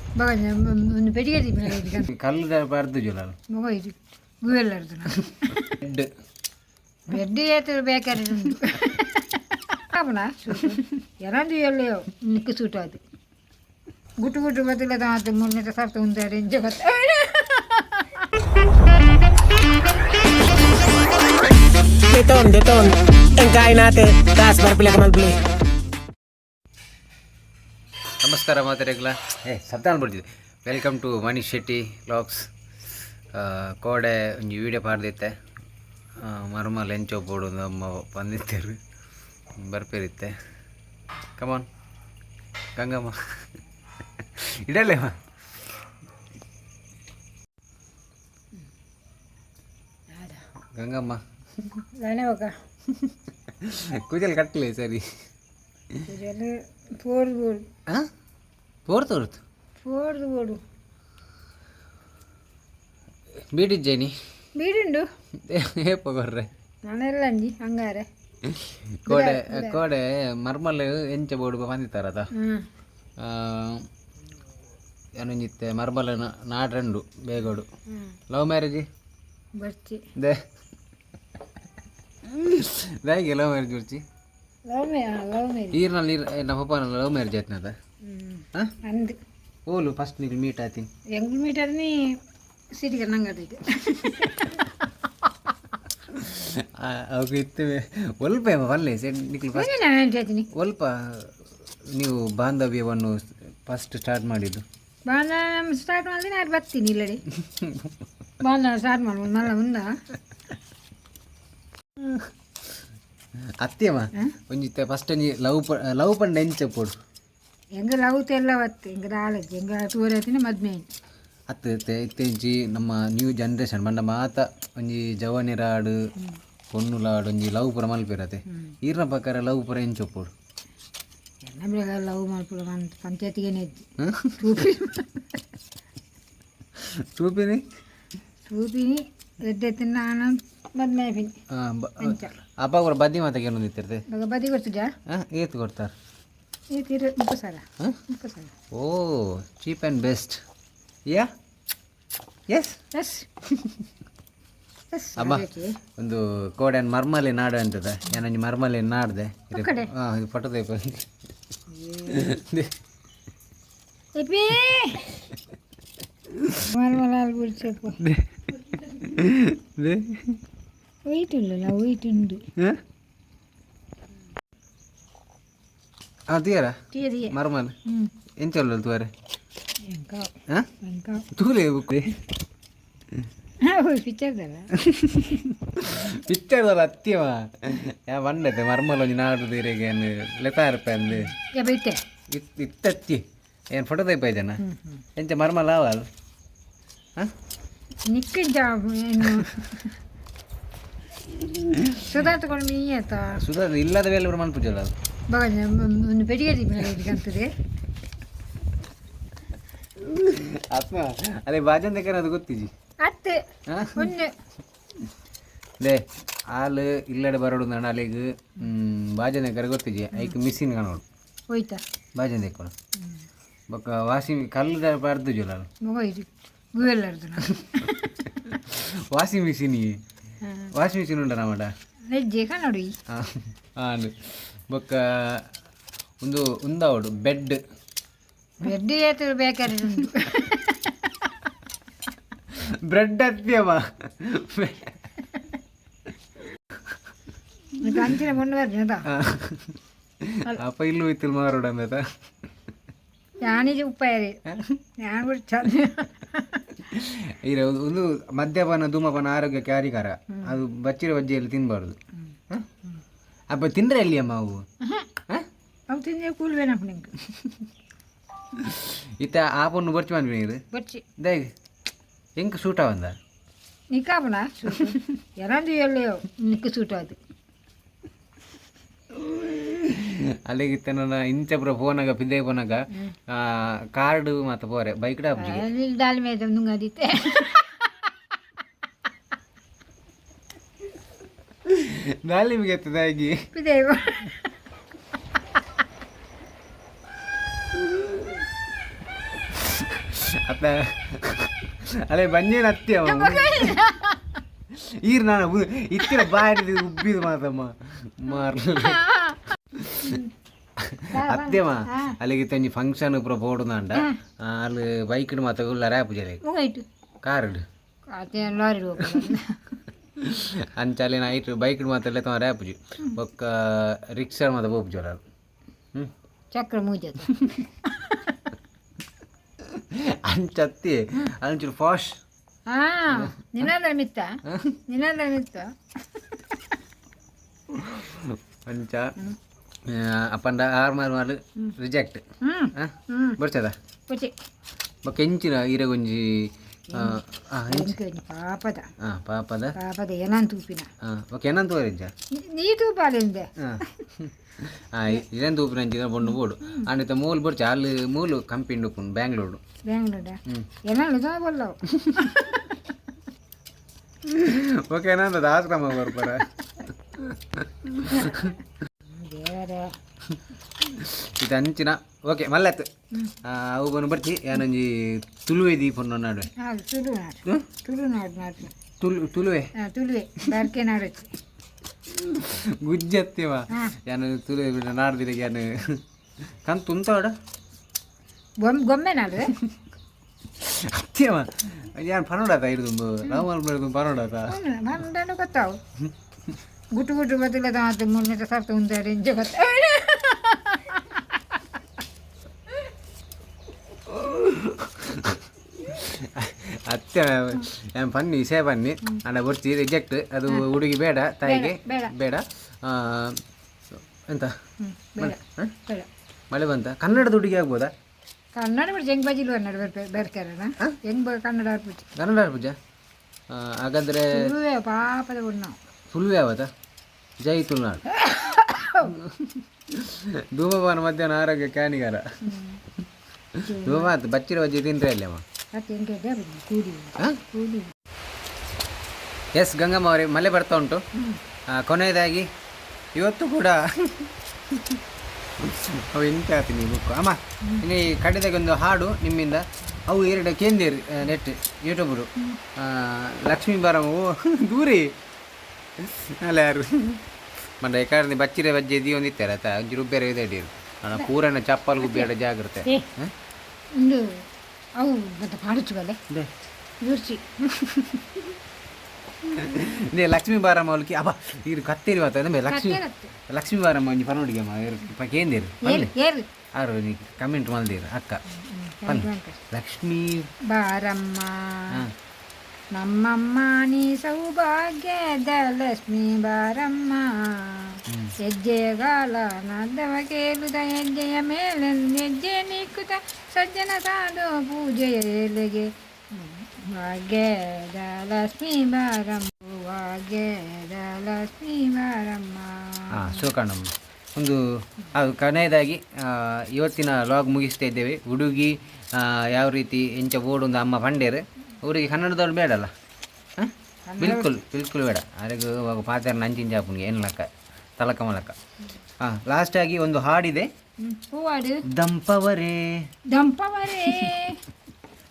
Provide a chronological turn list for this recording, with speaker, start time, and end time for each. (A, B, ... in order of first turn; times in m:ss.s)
0:00.2-0:02.1 A
0:01.9-0:03.4 B
0:03.5-0:05.8 A
0:05.6-0:06.1 B
0:07.1-0:13.0 A
0:14.2-0:18.3 A
0:22.1-0:25.4 C
0:28.2-0:32.5 B
0:33.3-0:35.4 B
0:36.2-0:38.8 B
0:39.6-0:40.4 B
0:41.4-0:41.7 B
0:42.8-0:43.2 B
0:44.2-0:45.2 B
0:50.1-0:50.4 A
0:50.8-0:51.2 B
0:51.7-0:52.5 A
0:53.5-0:55.0 B
0:56.1-0:57.6 A
0:58.9-0:59.4 B
0:59.8-1:00.6 A
1:03.5-1:04.1 B
1:04.6-1:05.1 A
1:05.4-1:06.5 B
1:06.8-1:08.1 A
1:08.4-1:12.3 B
1:09.1-1:09.8 A
1:12.3-1:12.7 A
1:13.2-1:13.9 B
1:15.2-1:17.7 B
1:18.3-1:18.9 B
1:19.6-1:20.0 A
1:20.2-1:20.4 B
1:22.2-1:24.0 B
1:24.7-1:25.8 A
1:25.7-1:27.7 B
1:28.0-1:29.2 A
1:29.7-1:30.9 B
1:31.1-1:32.0 A
1:32.8-1:35.3 A
1:36.1-1:39.7 B
1:39.5-1:40.5 A
1:40.5-1:41.4 B
1:41.9-1:44.6 B
1:45.1-1:47.2 A
1:47.6-1:47.9 B
1:48.4-1:49.9 A
1:53.6-1:56.9 B
1:57.8-2:00.9 A
2:01.5-2:06.0 B
2:06.7-2:10.3 B
2:11.4-2:13.8 A
2:14.0-2:14.4 B
2:14.4-2:15.4 A
2:16.8-2:17.6 B
2:18.5-2:21.3 A
2:21.5-2:24.0 B
2:22.0-2:22.3 A
2:24.1-2:24.9 A
2:25.1-2:25.9 B
2:26.7-2:28.5 A
2:28.7-2:30.4 B
2:32.5-2:32.8 B
2:32.9-2:33.3 A
2:34.9-2:35.8 A
2:35.2-2:41.1 B
2:39.5-2:39.9 A
2:41.7-2:42.3 A
2:42.1-2:42.7 B
2:44.2-2:45.3 A
2:46.7-2:48.0 A
2:48.0-2:50.4 B
2:51.1-2:52.4 A
2:56.3-2:57.8 B
2:56.9-2:57.3 A
2:57.8-2:58.1 A
2:58.4-2:59.1 B
2:59.8-3:01.2 A
3:01.3-3:02.2 B
3:03.6-3:05.4 A
3:04.8-3:11.3 B
3:11.2-3:12.0 A
3:12.3-3:14.6 B
3:14.6-3:15.0 A
3:15.2-3:16.1 B
3:18.1-3:20.0 A
3:21.4-3:22.0 B
3:22.0-3:23.4 A
3:23.3-3:24.9 B
3:25.3-3:27.5 A
3:30.0-3:32.7 B
3:33.0-3:33.4 A
3:33.7-3:34.1 B
3:34.0-3:34.3 A
3:35.8-3:41.0 B
3:41.5-3:41.8 A
3:42.2-3:42.7 B
3:43.7-3:45.7 B
3:45.8-3:48.3 A
3:48.4-3:50.0 B
3:50.4-3:50.7 A
3:50.7-3:51.7 B
3:52.1-3:52.9 A
3:53.1-3:55.5 B
3:56.2-3:57.6 B
3:58.6-4:01.3 A
4:02.5-4:05.0 B
4:07.8-4:09.1 A
4:09.1-4:12.0 B
4:13.4-4:14.4 A
4:15.0-4:16.7 A
4:16.8-4:22.0 B
4:20.3-4:20.6 A
4:23.5-4:24.6 B
4:24.8-4:25.1 A
4:25.9-4:27.2 A
4:28.6-4:30.6 B
4:30.7-4:31.0 A
4:31.2-4:31.5 B
4:32.4-4:33.2 B
4:33.9-4:37.2 A
4:39.1-4:45.7 B
4:45.4-4:48.1 A
4:51.7-4:53.5 B
4:53.5-4:54.5 A
4:59.6-5:03.8 B
5:03.0-5:04.4 A
5:04.7-5:09.1 B
5:08.8-5:09.4 A
5:09.7-5:10.2 B
5:10.0-5:10.3 A
5:10.8-5:16.4 B
5:11.1-5:12.2 A
5:16.4-5:16.9 A
5:17.2-5:17.6 B
5:18.1-5:19.7 A
5:20.2-5:25.2 B
5:26.5-5:28.5 A
5:27.3-5:27.6 B
5:29.6-5:32.2 B
5:32.7-5:36.8 A
5:34.5-5:34.8 B
5:37.7-5:39.2 B
5:39.8-5:42.2 B
5:42.4-5:43.4 A
5:42.8-5:43.8 B
5:44.1-5:44.3 A
5:45.0-5:48.0 B
5:46.9-5:48.9 A
5:49.0-5:49.8 B
5:49.8-5:50.9 A
5:51.0-5:52.1 B
5:52.3-5:53.9 A
5:53.6-5:59.6 B
5:56.6-5:56.9 A
5:59.9-6:02.9 A
6:04.2-6:06.5 B
6:07.1-6:08.6 B
6:09.1-6:10.0 A
6:10.9-6:16.5 B
6:16.6-6:18.7 A
6:19.0-6:19.7 B
6:19.8-6:21.3 A
6:22.1-6:26.0 B
6:23.7-6:24.0 A
6:26.6-6:27.4 B
6:28.6-6:29.6 A
6:30.6-6:34.6 B
6:34.5-6:35.8 A
6:36.9-6:41.6 A
6:44.1-6:54.6 B
6:51.4-6:52.1 A
6:54.8-6:56.1 A
6:55.2-6:55.8 B
6:56.5-6:57.9 B
6:58.6-7:02.1 A
7:02.2-7:02.8 B
7:03.5-7:04.5 B
7:04.3-7:05.8 A
7:06.1-7:06.7 B
7:07.4-7:08.1 B
7:08.1-7:09.2 A
7:09.0-7:12.4 B
7:12.4-7:12.8 A
7:13.6-7:14.1 A
7:13.8-7:15.4 B
7:15.7-7:17.9 A
7:19.6-7:21.0 B
7:21.2-7:21.4 A
7:21.7-7:22.5 B
7:23.2-7:25.0 B
7:25.6-7:35.1 B
7:36.0-7:37.2 B
7:37.8-7:43.3 B
7:42.0-7:42.3 A
7:44.0-7:46.2 A
7:47.0-7:48.5 A
7:49.5-7:56.1 B
7:52.7-7:53.3 A
7:55.8-7:56.5 A
7:56.7-7:58.4 B
7:58.6-7:59.6 A
7:59.1-8:00.5 B
8:00.7-8:02.1 A
8:02.9-8:23.4 A
8:08.1-8:08.4 B
8:23.1-8:32.9 B
8:33.6-8:38.6 B
8:34.1-8:34.5 A
8:39.2-8:40.7 B
8:41.0-8:41.8 A
8:41.9-8:43.1 B
8:43.3-8:44.6 A